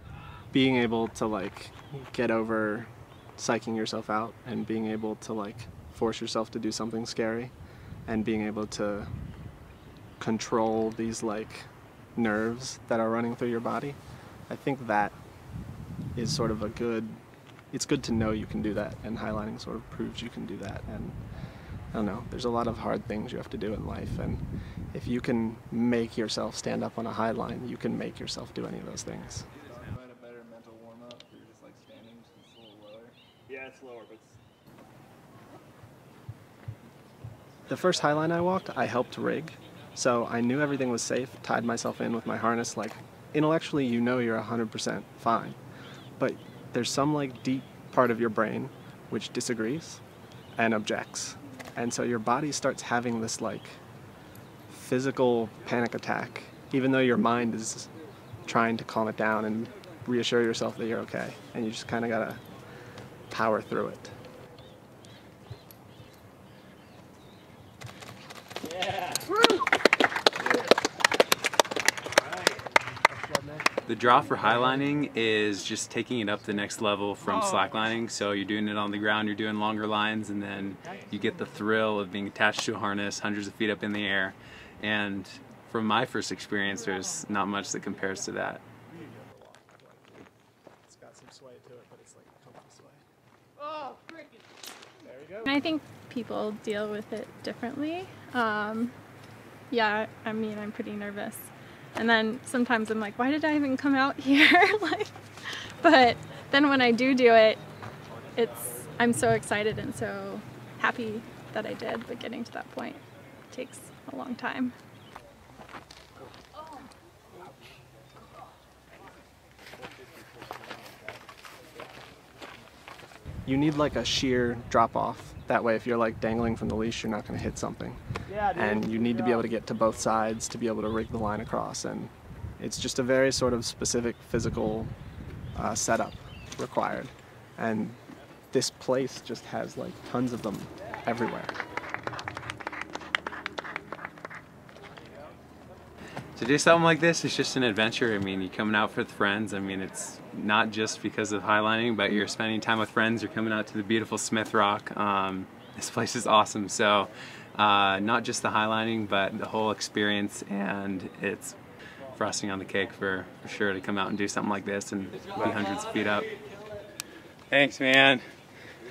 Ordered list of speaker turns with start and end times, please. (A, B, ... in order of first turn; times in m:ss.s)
0:00.5-0:07.5 A
0:08.1-0:09.1 A
0:10.2-0:14.0 A
0:14.5-0:15.2 A
0:16.2-0:17.2 A
0:17.7-0:21.2 A
0:21.9-0:29.5 A
0:29.6-0:34.4 B
0:37.7-0:45.6 A
0:46.2-0:50.0 A
0:50.6-0:53.8 A
0:54.7-0:57.9 A
0:58.4-1:02.4 A
1:03.3-1:04.2 A
1:13.9-1:28.6 C
1:28.9-1:30.3 A
1:30.9-1:33.0 A
1:35.4-1:39.0 D
1:39.7-1:47.6 D
1:48.4-1:54.7 D
2:03.4-2:08.0 A
2:08.5-2:14.9 A
2:15.6-2:18.0 A
2:18.5-2:21.6 A
2:26.4-2:41.6 C
2:42.2-2:46.3 C
2:47.5-2:48.2 C